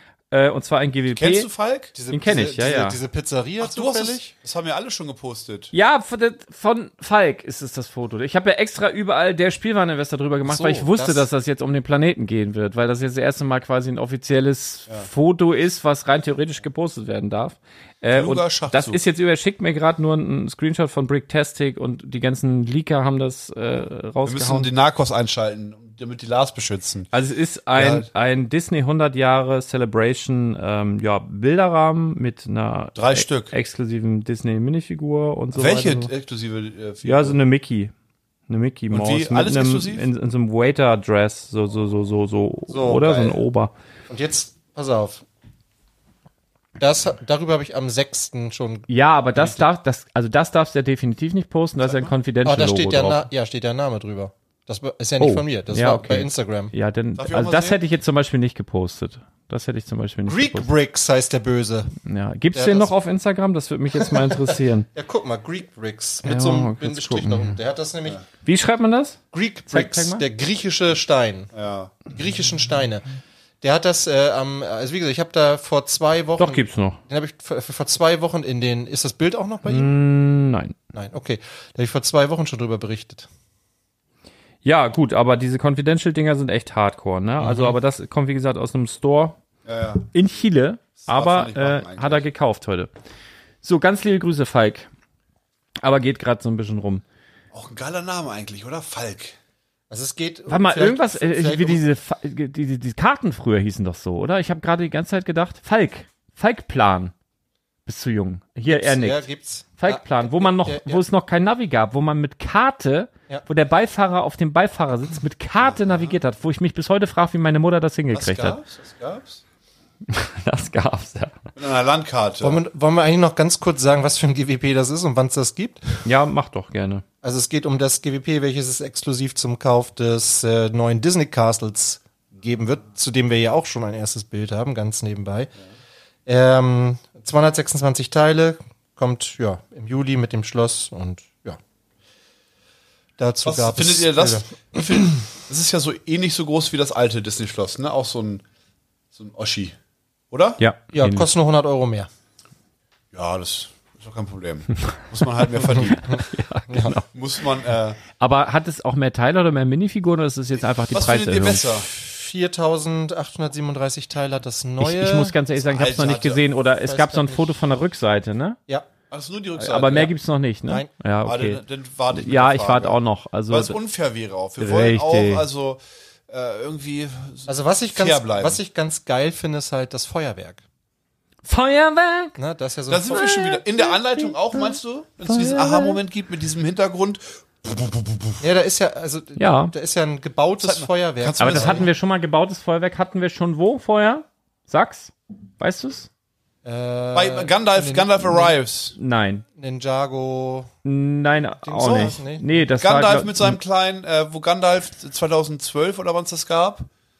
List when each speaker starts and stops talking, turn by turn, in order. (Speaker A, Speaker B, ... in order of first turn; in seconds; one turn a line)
Speaker A: 0.3-1.5
Speaker B: 1.1-1.9
Speaker C: 1.9-4.3
Speaker A: 2.1-3.0
Speaker B: 3.6-5.7
Speaker A: 5.7-24.7
Speaker C: 10.4-11.3
Speaker B: 18.1-19.0
Speaker B: 24.2-27.1
Speaker A: 27.1-36.1
Speaker B: 27.7-28.1
Speaker B: 32.9-33.5
Speaker B: 35.5-37.4
Speaker A: 37.0-37.9
Speaker A: 38.5-43.7
Speaker B: 38.9-40.1
Speaker C: 42.7-43.4
Speaker C: 44.1-45.2
Speaker C: 46.8-49.6
Speaker A: 48.9-53.2
Speaker B: 51.8-52.1
Speaker C: 52.4-56.7
Speaker A: 55.2-60.7
Speaker B: 57.2-57.8
Speaker C: 60.3-61.9
Speaker A: 62.0-64.9
Speaker C: 62.5-62.9
Speaker C: 63.9-68.2
Speaker A: 66.2-67.6
Speaker A: 68.4-70.2
Speaker C: 69.3-71.5
Speaker B: 71.5-71.9
Speaker C: 72.1-79.9
Speaker A: 76.4-77.0
Speaker A: 79.6-80.7
Speaker C: 80.9-83.3
Speaker A: 84.6-89.3
Speaker C: 87.4-87.8
Speaker B: 89.6-90.1
Speaker A: 90.1-92.9
Speaker B: 91.0-92.2
Speaker A: 93.6-94.9
Speaker A: 95.8-97.0
Speaker B: 97.5-99.3
Speaker C: 99.9-101.8
Speaker A: 100.5-107.1
Speaker A: 107.8-118.6
Speaker C: 108.7-111.0
Speaker B: 115.6-116.2
Speaker B: 118.1-119.4
Speaker A: 120.1-121.4
Speaker B: 121.5-122.6
Speaker C: 122.4-125.9
Speaker A: 126.0-127.0
Speaker C: 127.2-135.5
Speaker C: 136.2-141.6
Speaker C: 143.2-145.1
Speaker B: 143.4-148.4
Speaker B: 149.1-149.8
Speaker B: 150.3-150.6
Speaker A: 150.6-151.3
Speaker C: 150.9-152.1
Speaker B: 153.1-156.2
Speaker A: 155.8-157.0
Speaker C: 155.8-156.9
Speaker B: 157.0-158.0
Speaker A: 158.2-161.6
Speaker B: 160.9-161.9
Speaker C: 161.8-165.3
Speaker A: 164.8-168.6
Speaker B: 165.6-166.4
Speaker C: 166.7-167.5
Speaker B: 169.1-170.1
Speaker A: 169.6-173.8
Speaker B: 171.2-178.6
Speaker A: 174.6-175.4
Speaker C: 177.5-180.6
Speaker A: 181.4-182.4
Speaker C: 182.4-183.3
Speaker B: 182.9-188.4
Speaker A: 183.1-186.0
Speaker C: 188.4-191.9
Speaker A: 189.4-189.7
Speaker B: 190.6-191.9
Speaker A: 191.4-196.1
Speaker C: 196.6-198.6
Speaker B: 197.1-198.9
Speaker A: 199.0-199.4
Speaker C: 199.5-200.7
Speaker A: 200.8-203.6
Speaker C: 201.6-202.5
Speaker B: 201.8-202.2
Speaker B: 202.8-206.9